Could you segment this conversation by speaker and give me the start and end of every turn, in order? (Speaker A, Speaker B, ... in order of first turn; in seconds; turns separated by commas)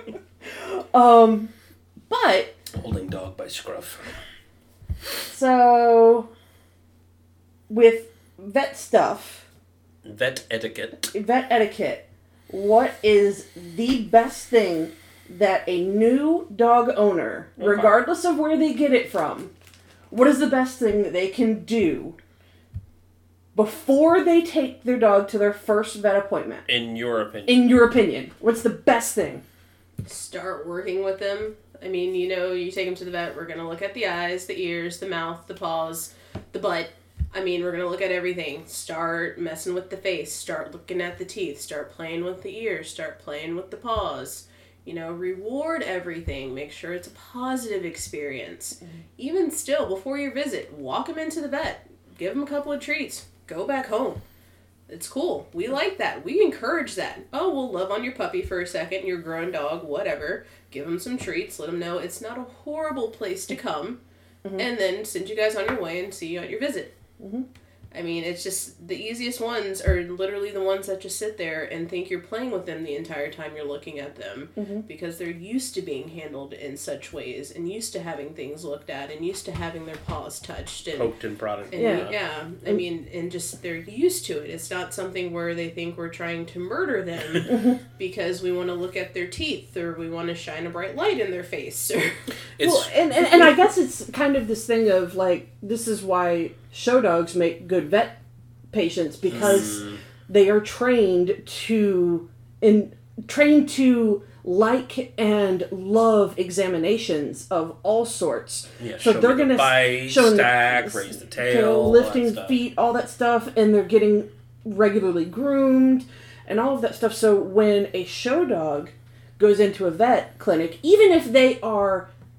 Speaker A: 0.5-1.5, Speaker A: 2.1-2.5, Speaker B: 2.7-4.2, Speaker A: 5.3-6.3, Speaker A: 7.7-9.4, Speaker B: 10.0-11.1, Speaker A: 11.1-19.5, Speaker B: 17.6-18.0, Speaker A: 20.1-22.1, Speaker A: 23.5-26.7, Speaker B: 26.7-27.6, Speaker A: 27.4-29.4, Speaker C: 30.0-54.2, Speaker C: 54.9-64.0, Speaker C: 64.6-67.0, Speaker A: 67.2-67.5, Speaker C: 67.9-81.1, Speaker A: 74.6-74.8, Speaker B: 80.9-82.2, Speaker C: 81.7-92.2, Speaker A: 81.7-82.1, Speaker A: 87.5-87.7, Speaker B: 92.6-92.9, Speaker A: 92.6-98.2, Speaker A: 98.7-122.1, Speaker B: 99.3-100.0, Speaker B: 108.8-112.6